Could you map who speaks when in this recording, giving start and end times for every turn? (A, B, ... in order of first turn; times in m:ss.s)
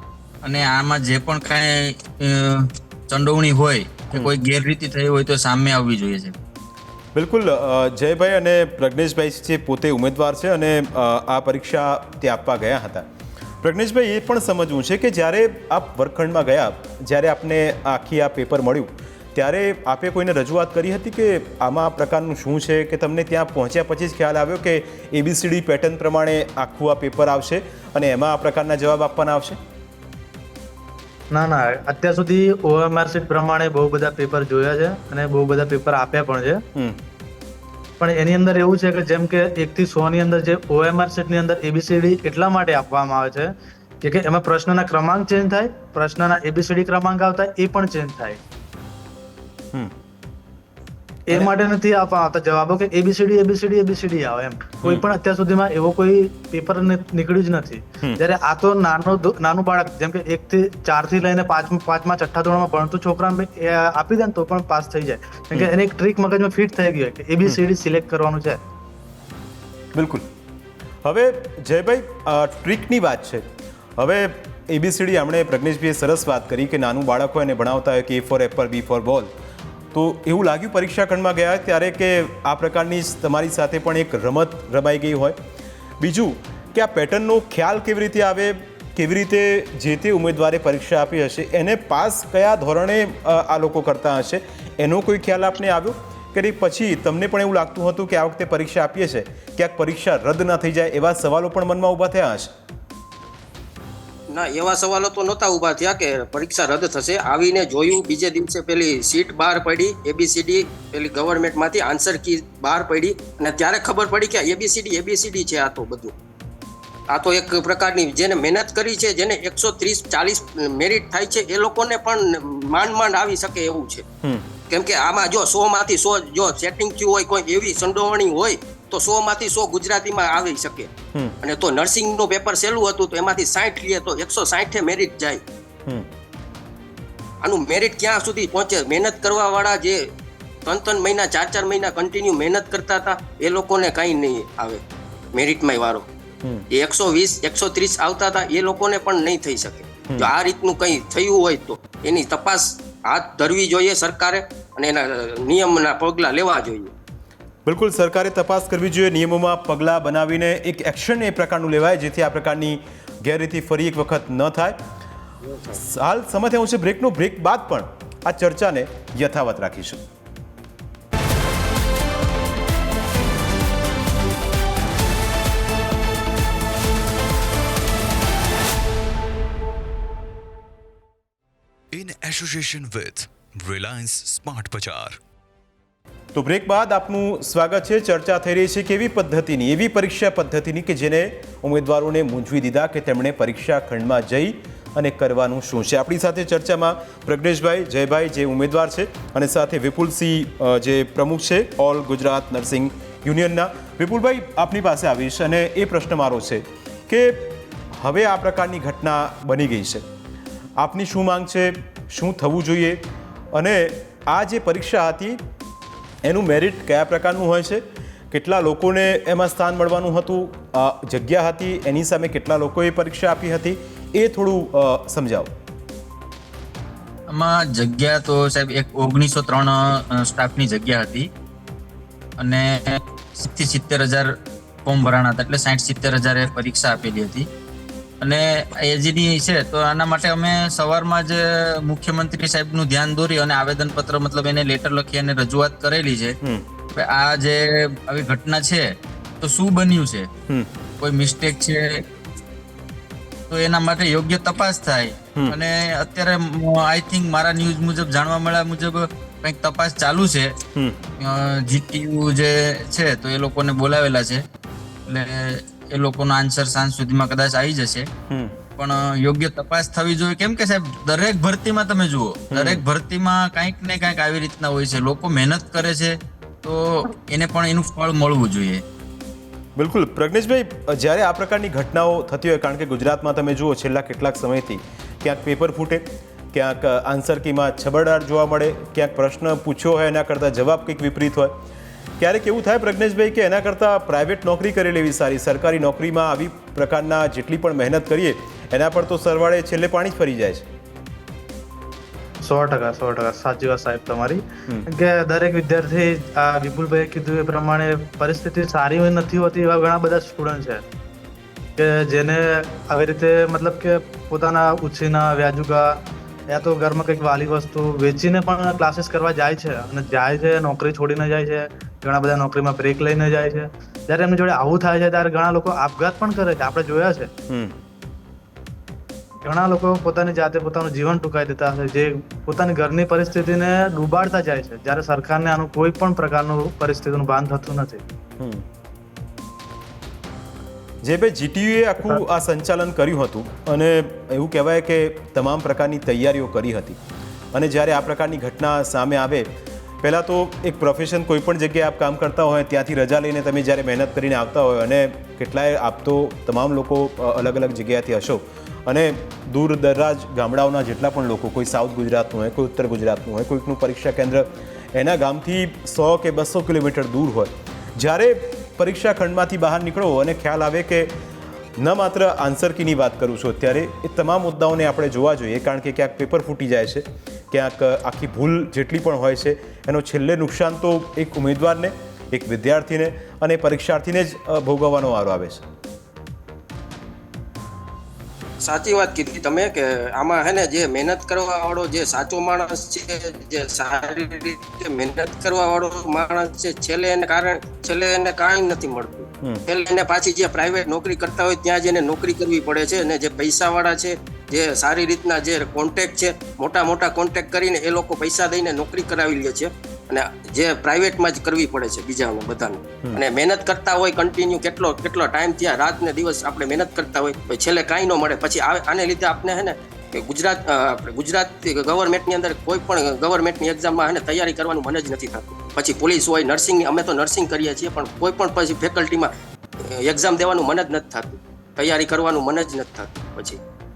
0:00.4-0:06.3 A
0:07.1-0:13.1 B
0:13.6-0:29.6 B
0:31.3-0:36.6 C
0:36.7-0:37.0 B
0:38.0-0:48.4 C
0:51.3-1:08.6 C
1:09.9-1:10.3 B
1:11.0-1:19.3 B
1:19.9-1:25.4 B
1:26.0-1:42.5 B
1:44.3-1:56.1 D
1:57.1-2:04.0 D
2:04.2-2:04.5 B
2:04.7-2:10.9 D
2:11.4-2:15.4 D
2:17.4-2:20.1 D
2:20.6-2:24.8 D
2:25.3-2:26.1 D
2:26.7-2:36.9 D
2:37.6-2:44.8 B
2:45.7-2:50.0 B
3:01.9-3:05.2 E
3:06.3-3:30.0 B
3:30.8-3:35.4 B
3:36.2-3:45.5 B
3:47.3-3:51.3 A
3:52.4-3:54.3 A
3:54.8-3:57.5 A
3:58.2-4:06.4 A
4:06.9-4:10.3 A
4:11.0-4:12.0 A
4:13.5-4:20.6 A
4:20.7-4:21.1 B
4:21.2-4:24.4 A
4:25.1-4:28.1 A
4:28.3-4:28.6 B
4:28.8-4:38.8 A
4:32.5-4:32.8 B
4:39.8-4:51.6 B
4:52.2-5:00.7 B
5:02.4-5:10.8 C
5:11.8-5:27.3 C
5:27.5-5:27.8 B
5:29.4-5:38.0 C
5:38.4-5:38.6 B
5:41.0-5:47.0 B
5:47.5-5:49.5 B
5:50.0-6:11.2 B
6:11.8-6:25.6 B
6:28.6-7:13.6 D